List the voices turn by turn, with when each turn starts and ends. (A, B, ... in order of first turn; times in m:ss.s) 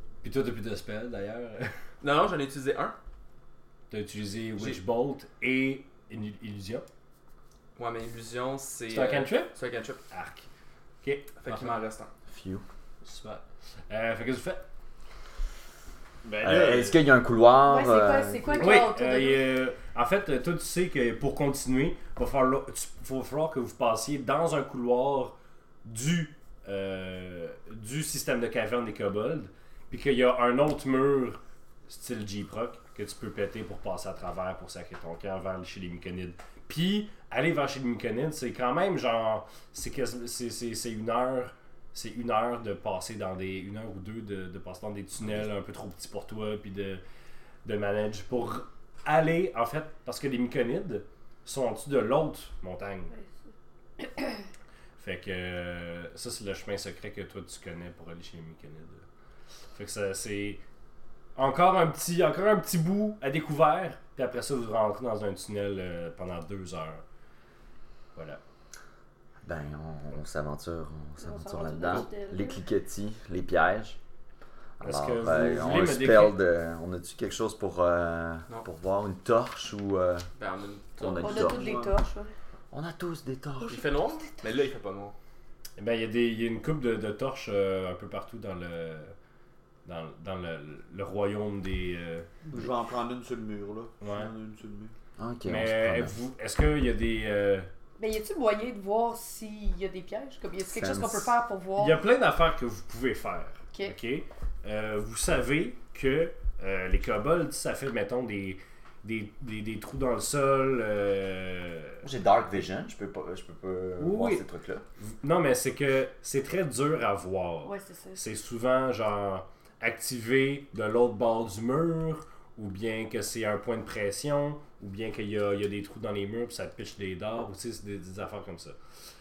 0:00.2-0:01.8 A
0:02.0-0:03.0 B
0:03.9-0:06.8 A
0:07.8-0:10.0 B
0:08.9-0:09.5 A
0:10.1-0:10.4 A
0:11.0-0:11.8 A
0:11.4-0:12.1 B
0:12.3-0:12.6 C
0:13.0-0:14.6 A
0:16.2-0:17.0 A
0:16.4-0:18.6 C
0:17.6-0:19.4 D
0:18.6-0:47.0 A
0:47.6-0:53.1 A
0:55.0-0:59.0 A
0:59.7-1:00.6 A
1:01.4-1:07.0 A
1:08.1-1:08.4 A
1:09.4-1:14.0 C
1:11.2-1:12.6 D
1:14.8-1:20.3 C
1:14.8-1:16.4 A
1:20.4-1:21.3 B
1:21.0-1:21.8 C
1:21.2-1:22.3 D
1:21.3-1:21.9 E
1:22.7-1:23.9 C
1:23.7-1:25.1 B
1:25.8-1:29.1 A
1:29.8-1:32.3 A
1:32.4-1:34.9 E
1:34.0-1:34.3 A
1:35.2-1:36.1 C
1:35.4-1:37.7 A
1:38.0-1:42.0 D
1:40.7-1:41.3 C
1:41.8-1:52.0 A
1:52.0-1:54.8 C
1:54.0-1:54.4 A
1:55.0-2:08.7 A
1:57.6-1:58.2 D